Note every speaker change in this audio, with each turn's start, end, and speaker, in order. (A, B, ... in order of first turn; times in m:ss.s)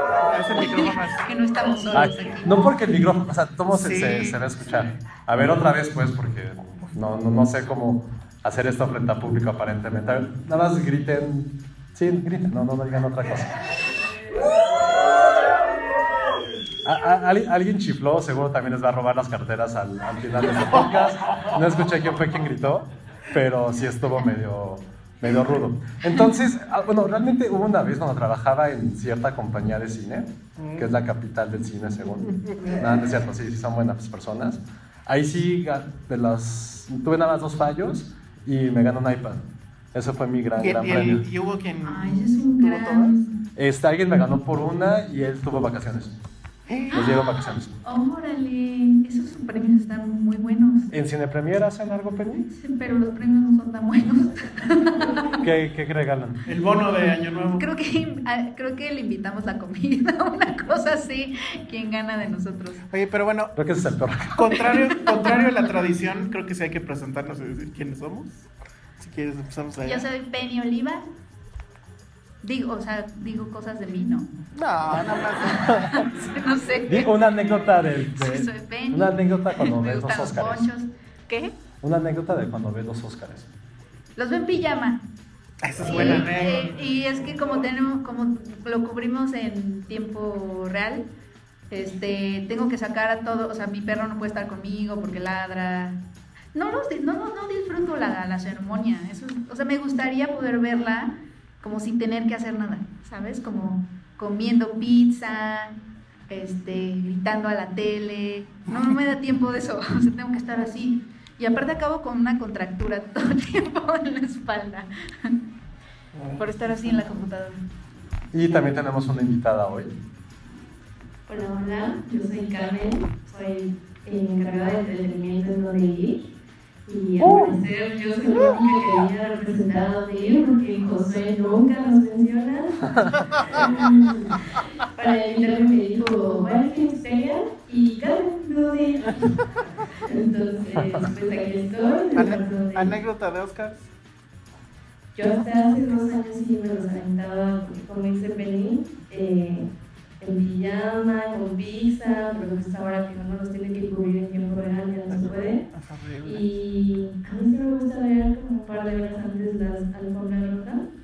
0:00.2-0:01.3 A
0:00.6-0:02.5 B
0:01.9-0:13.6 C
0:03.7-0:04.4 A
0:16.8-0:41.2 C
0:30.6-0:30.9 A
0:32.4-0:33.0 A
0:40.6-0:43.2 A
0:41.8-0:43.3 B
0:43.6-0:46.1 C
0:46.7-0:47.0 A
0:46.9-0:50.9 B
0:46.9-0:47.7 C
0:50.9-0:52.5 C
0:52.6-0:55.4 B
0:55.4-0:56.4 C
0:56.5-0:57.6 A
0:57.6-1:02.8 B
1:02.9-1:03.5 A
1:03.6-1:04.6 C
1:04.3-1:08.4 A
1:04.8-1:05.3 B
1:09.0-1:10.1 A
1:09.8-1:11.0 B
1:12.4-1:14.3 B
1:14.6-1:15.9 A
1:15.6-1:16.0 C
1:15.7-1:21.5 B
1:16.9-1:20.7 C
1:21.8-1:23.5 C
1:24.2-1:25.0 B
1:25.6-1:26.8 A
1:25.8-1:31.0 B
1:25.8-1:26.3 C
1:31.7-1:36.0 B
1:36.5-1:45.8 B
1:46.3-1:55.4 B
1:56.1-1:57.0 A
1:56.4-1:57.6 B
1:58.3-1:59.9 C
2:01.3-2:06.2 D
2:06.9-2:19.1 D
2:07.2-2:07.6 C
2:20.0-2:22.9 D
2:22.2-2:23.9 A
2:25.1-2:29.7 D
2:30.2-2:35.6 D
2:35.1-2:36.4 A
2:36.2-2:40.8 D